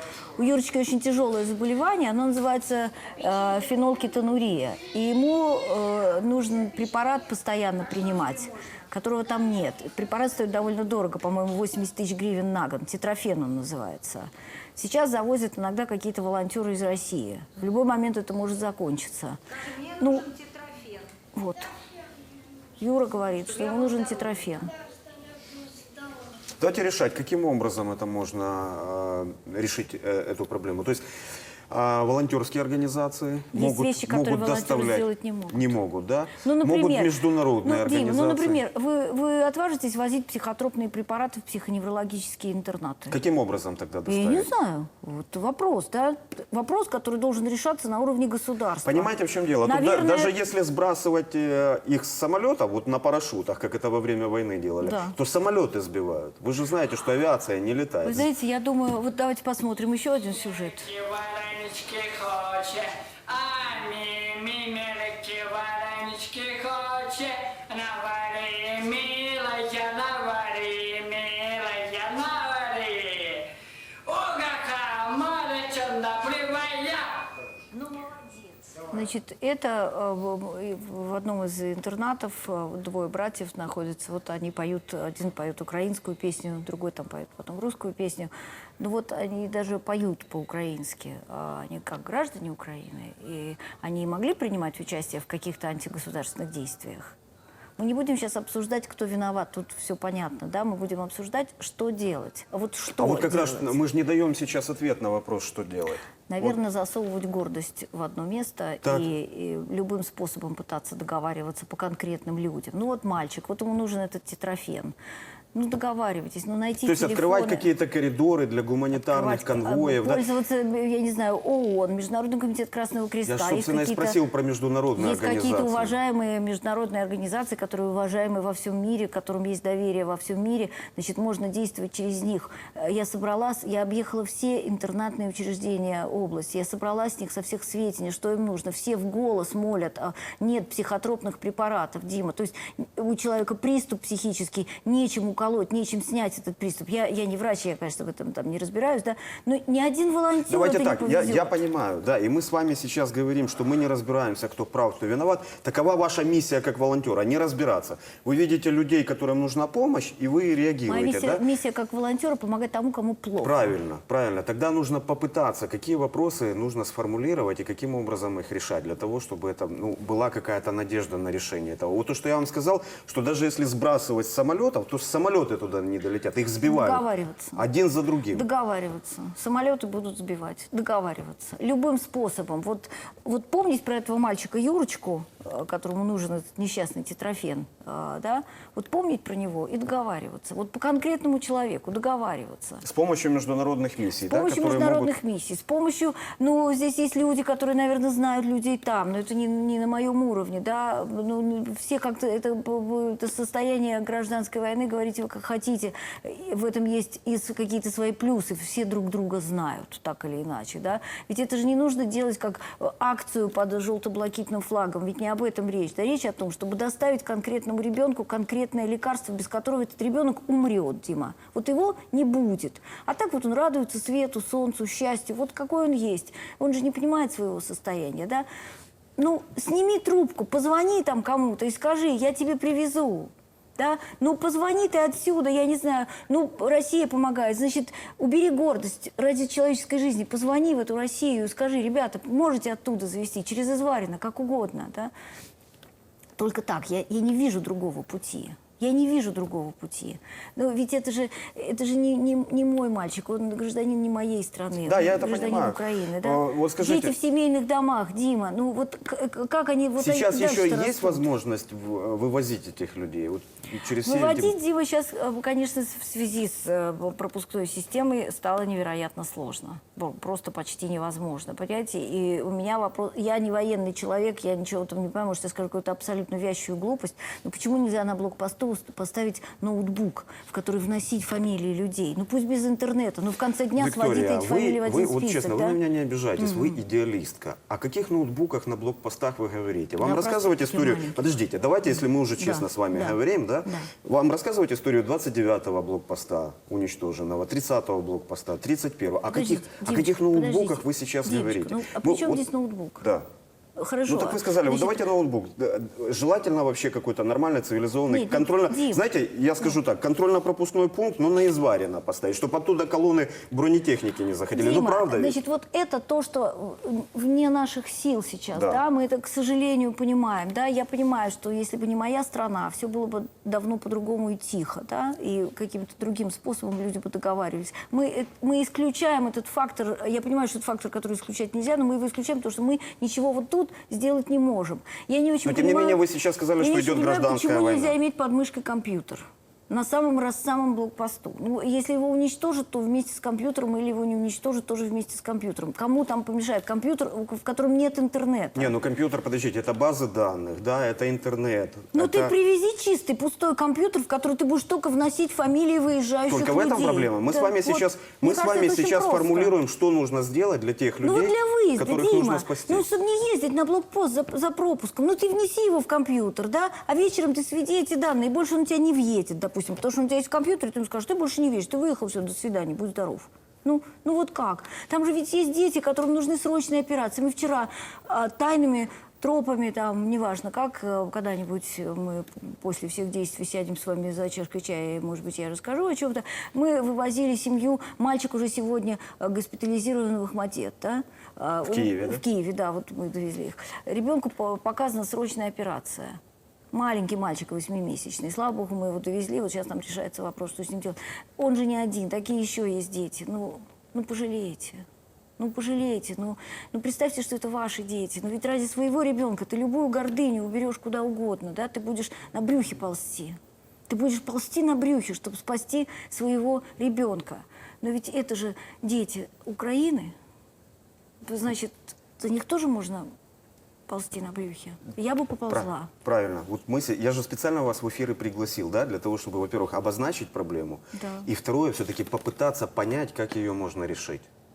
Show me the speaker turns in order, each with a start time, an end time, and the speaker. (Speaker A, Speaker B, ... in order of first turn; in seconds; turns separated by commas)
Speaker A: 0.4-20.6, Speaker A: 21.3-21.7, Speaker A: 22.8-24.7, Speaker B: 26.6-31.0, Speaker B: 31.7-38.6, Speaker A: 33.5-35.8, Speaker A: 36.4-43.1, Speaker B: 43.1-44.5, Speaker A: 44.1-49.1, Speaker B: 48.8-58.2, Speaker A: 49.6-50.3, Speaker A: 54.8-55.1, Speaker A: 58.0-61.0, Speaker C: 61.0-73.5, Speaker C: 74.0-77.3, Speaker A: 77.7-97.2, Speaker A: 97.8-103.8, Speaker B: 103.0-106.6, Speaker A: 106.3-114.9, Speaker A: 115.5-117.7, Speaker B: 116.8-120.3, Speaker A: 118.9-124.2, Speaker B: 123.3-125.9, Speaker A: 124.9-151.6, Speaker B: 150.5-161.4, Speaker A: 160.9-163.7, Speaker B: 163.4-177.0, Speaker A: 176.6-177.6, Speaker B: 177.6-178.4, Speaker A: 178.3-192.8, Speaker B: 192.8-195.1, Speaker A: 194.2-228.4, Speaker A: 229.2-245.1, Speaker A: 246.4-261.2, Speaker B: 254.8-257.1, Speaker B: 260.0-264.5, Speaker A: 264.0-285.8, Speaker B: 283.8-302.5, Speaker A: 286.4-286.8, Speaker A: 290.0-291.2, Speaker A: 291.9-293.9, Speaker A: 299.3-303.1, Speaker A: 303.8-305.0, Speaker B: 304.1-315.4, Speaker A: 308.1-309.0, Speaker A: 314.5-336.0, Speaker B: 318.5-318.8, Speaker B: 335.4-337.9, Speaker A: 336.6-348.7, Speaker B: 348.6-352.3, Speaker A: 351.9-359.5, Speaker B: 356.3-362.8, Speaker A: 361.0-396.2, Speaker B: 391.6-392.2, Speaker A: 396.7-404.8, Speaker A: 405.4-420.1, Speaker A: 421.2-423.1, Speaker A: 423.9-425.9, Speaker B: 425.5-434.3, Speaker A: 430.9-431.3